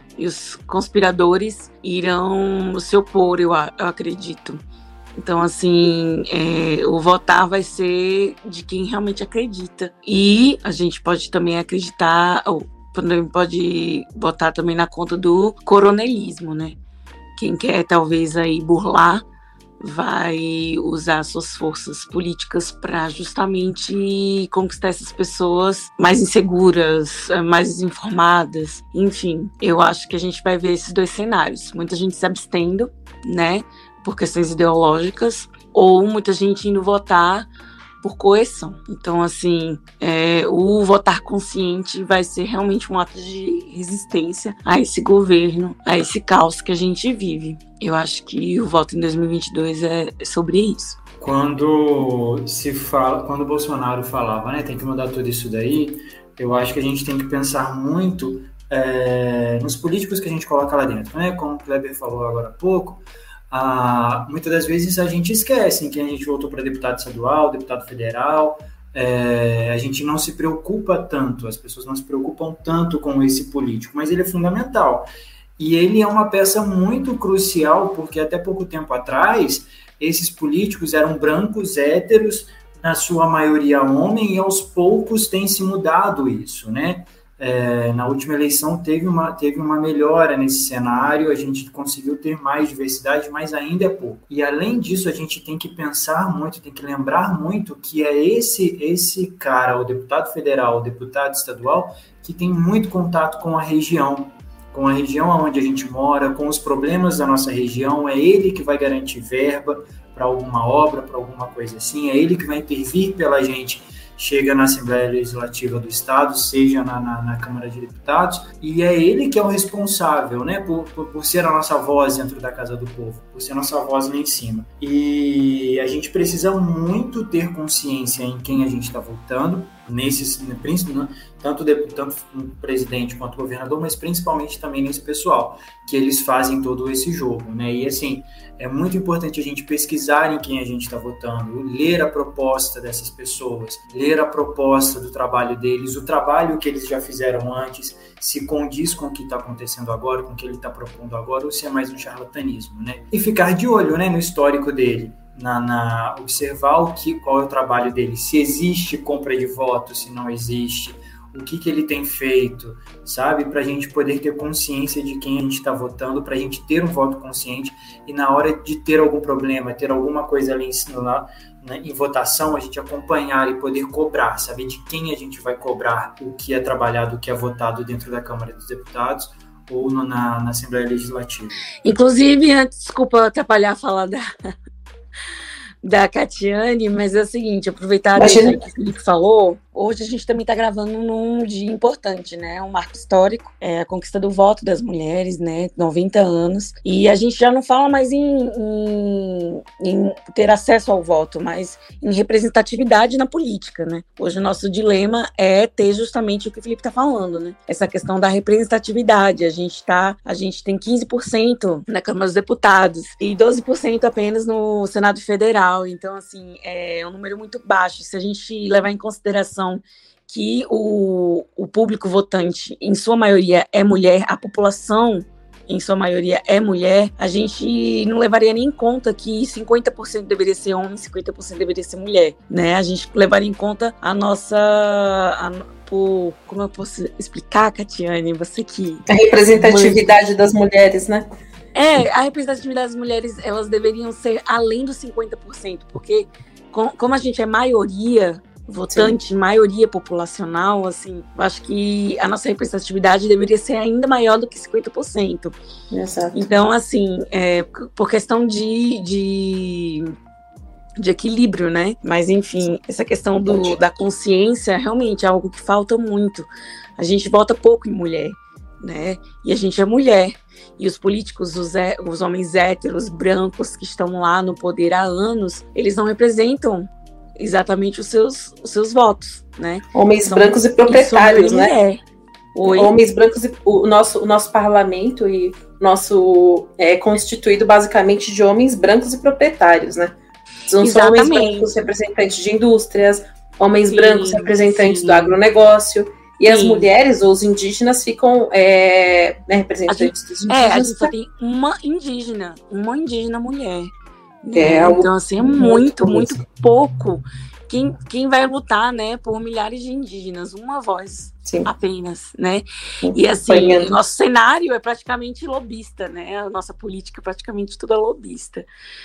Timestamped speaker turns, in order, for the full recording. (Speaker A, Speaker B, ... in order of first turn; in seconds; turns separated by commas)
Speaker A: 0.2-4.6, Speaker A: 5.2-16.8, Speaker A: 17.4-19.2, Speaker A: 19.8-37.5, Speaker A: 38.0-51.0, Speaker B: 51.2-181.5, Speaker A: 181.8-184.2, Speaker A: 185.8-240.1, Speaker C: 188.2-188.6, Speaker C: 239.1-241.3, Speaker A: 241.8-255.6, Speaker C: 255.9-256.4, Speaker A: 256.3-260.1, Speaker A: 261.0-282.0, Speaker C: 263.5-263.8, Speaker C: 279.9-281.7, Speaker A: 282.6-282.9, Speaker C: 282.7-290.1, Speaker C: 290.7-301.1, Speaker A: 290.8-291.7, Speaker A: 293.9-295.4, Speaker A: 296.5-296.9, Speaker A: 299.9-303.9, Speaker A: 304.4-318.6, Speaker C: 304.6-306.4, Speaker C: 313.0-313.9